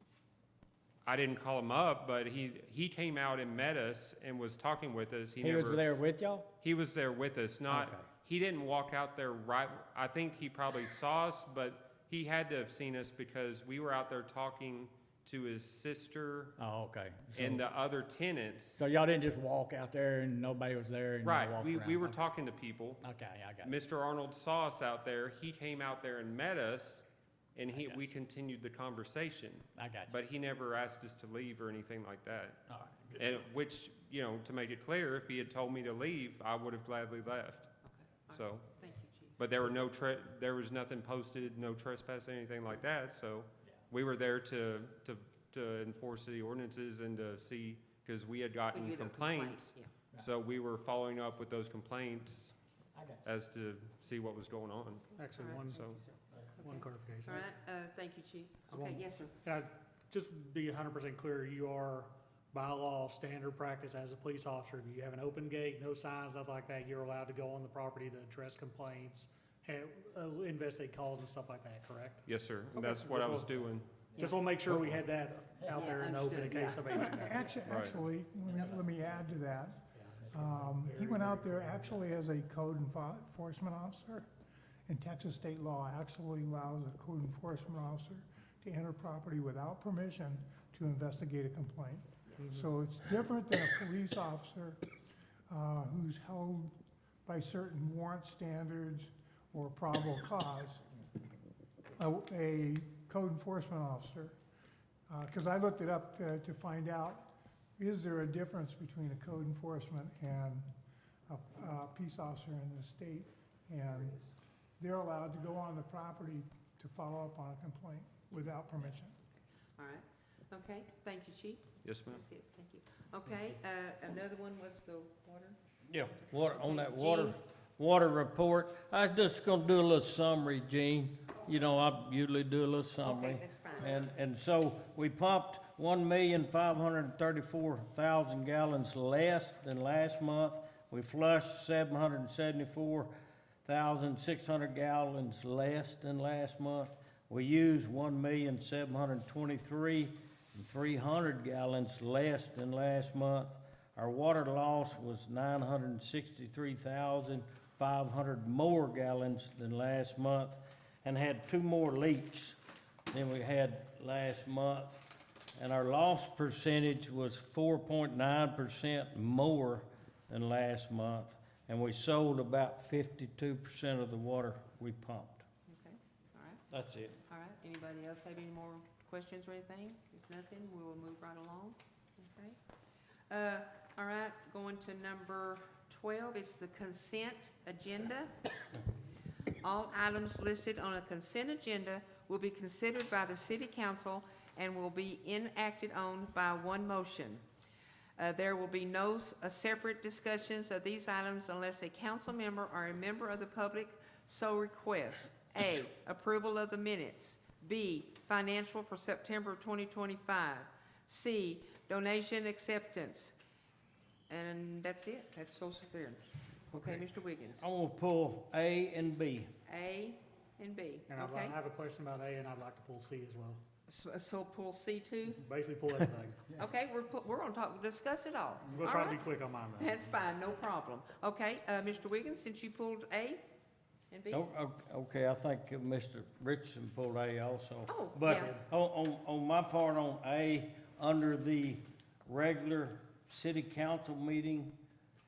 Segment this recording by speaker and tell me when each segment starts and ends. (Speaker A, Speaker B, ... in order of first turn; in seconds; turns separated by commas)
Speaker A: 1.0-5.9, Speaker B: 5.4-6.5, Speaker A: 6.6-16.6, Speaker B: 7.7-8.1, Speaker B: 16.6-17.6, Speaker A: 17.3-18.8, Speaker B: 18.8-22.2, Speaker A: 21.2-23.0, Speaker B: 23.0-23.8, Speaker A: 23.6-32.6, Speaker B: 29.8-30.2, Speaker B: 32.7-33.4, Speaker A: 33.2-37.7, Speaker C: 37.8-39.4, Speaker A: 38.3-38.7, Speaker A: 39.4-52.5, Speaker C: 48.7-49.9, Speaker B: 53.0-53.2, Speaker A: 53.2-55.1, Speaker D: 55.2-55.9, Speaker C: 55.2-59.4, Speaker A: 55.7-56.0, Speaker D: 56.6-57.5, Speaker D: 58.7-77.4, Speaker A: 72.3-73.9, Speaker C: 74.2-74.4, Speaker A: 74.7-75.0, Speaker C: 75.6-77.5, Speaker E: 76.9-79.8, Speaker A: 77.7-78.0, Speaker B: 78.5-82.0, Speaker E: 80.3-84.3, Speaker E: 84.9-94.8, Speaker C: 92.3-92.6, Speaker E: 95.5-96.8, Speaker E: 97.3-100.8, Speaker E: 102.0-104.4, Speaker E: 105.1-110.7, Speaker E: 111.3-114.3, Speaker E: 114.8-119.2, Speaker C: 119.8-125.6, Speaker A: 121.8-122.2, Speaker F: 125.9-143.1, Speaker C: 126.3-127.4, Speaker C: 133.0-134.1, Speaker F: 143.7-162.6, Speaker F: 163.1-175.4, Speaker C: 175.7-176.7, Speaker F: 176.7-177.2, Speaker C: 177.3-182.6, Speaker C: 183.3-188.3, Speaker C: 189.6-197.4, Speaker C: 198.2-213.3, Speaker C: 214.3-217.6, Speaker F: 216.7-217.1, Speaker F: 217.6-219.5, Speaker C: 219.7-221.6, Speaker D: 221.1-223.6, Speaker C: 223.9-225.4, Speaker D: 225.4-226.5, Speaker C: 226.5-233.4, Speaker D: 228.7-229.9, Speaker C: 234.1-234.5, Speaker F: 234.3-244.8, Speaker C: 237.9-238.6, Speaker D: 238.3-238.6